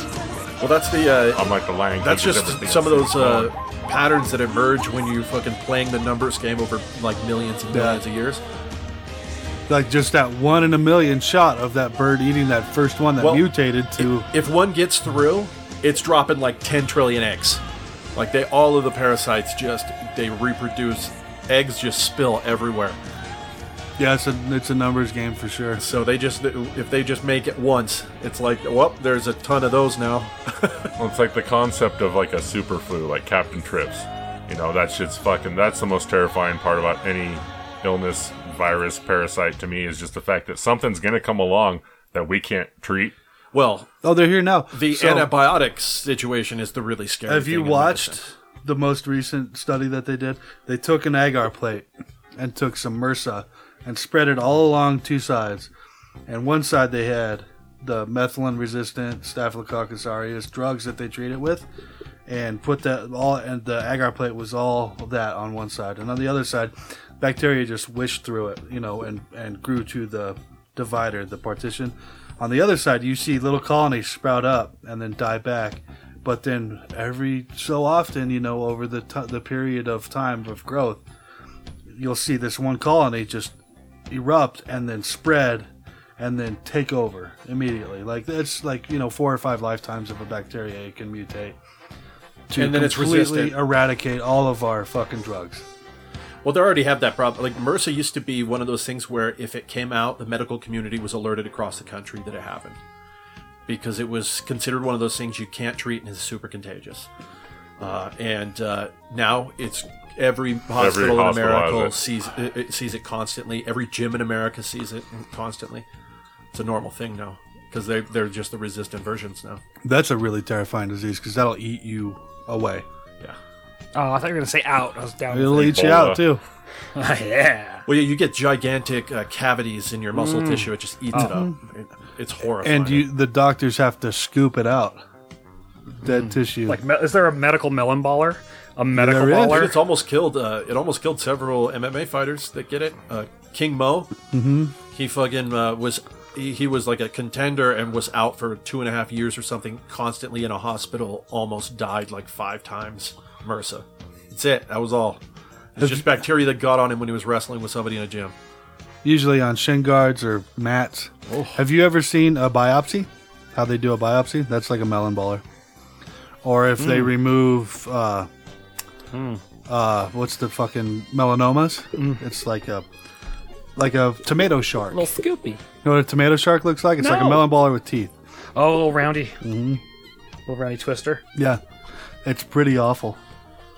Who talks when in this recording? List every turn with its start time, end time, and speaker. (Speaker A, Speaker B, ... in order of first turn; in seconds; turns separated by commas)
Speaker A: 0.6-8.4, Speaker B: 1.3-3.5, Speaker C: 7.7-8.0, Speaker C: 9.7-14.3, Speaker A: 13.2-17.6, Speaker A: 18.1-23.0, Speaker C: 24.0-25.8, Speaker A: 25.8-30.9, Speaker B: 31.0-43.1, Speaker A: 43.5-43.9, Speaker C: 44.0-45.3, Speaker A: 44.7-48.2, Speaker C: 47.2-55.7, Speaker C: 56.3-61.6, Speaker C: 62.3-81.0, Speaker C: 81.9-83.5, Speaker C: 84.1-91.6, Speaker C: 92.5-95.6, Speaker A: 92.5-93.6, Speaker A: 96.4-102.8, Speaker A: 103.7-107.1, Speaker A: 107.8-115.8, Speaker B: 110.8-111.9, Speaker A: 116.5-119.6, Speaker C: 119.8-122.8, Speaker D: 123.9-126.0, Speaker C: 125.3-126.4, Speaker B: 125.5-126.3, Speaker D: 126.9-127.8, Speaker A: 127.9-133.1, Speaker D: 130.1-131.3, Speaker C: 131.1-131.5, Speaker C: 132.6-135.0, Speaker C: 136.0-136.8, Speaker D: 136.7-139.8, Speaker C: 138.9-139.7, Speaker A: 139.3-144.1, Speaker C: 144.3-144.7, Speaker A: 144.9-155.2, Speaker A: 155.8-158.3, Speaker C: 155.8-156.1, Speaker C: 159.0-165.4, Speaker A: 161.3-161.6, Speaker C: 166.4-168.3, Speaker D: 166.8-167.1, Speaker D: 169.1-169.4, Speaker C: 169.7-172.8, Speaker D: 171.9-172.2, Speaker C: 173.8-175.1, Speaker D: 174.9-175.6, Speaker C: 175.8-178.1, Speaker D: 177.0-177.5, Speaker D: 178.6-179.4, Speaker C: 179.4-179.8, Speaker D: 180.5-181.2, Speaker C: 181.3-181.6, Speaker C: 182.2-183.2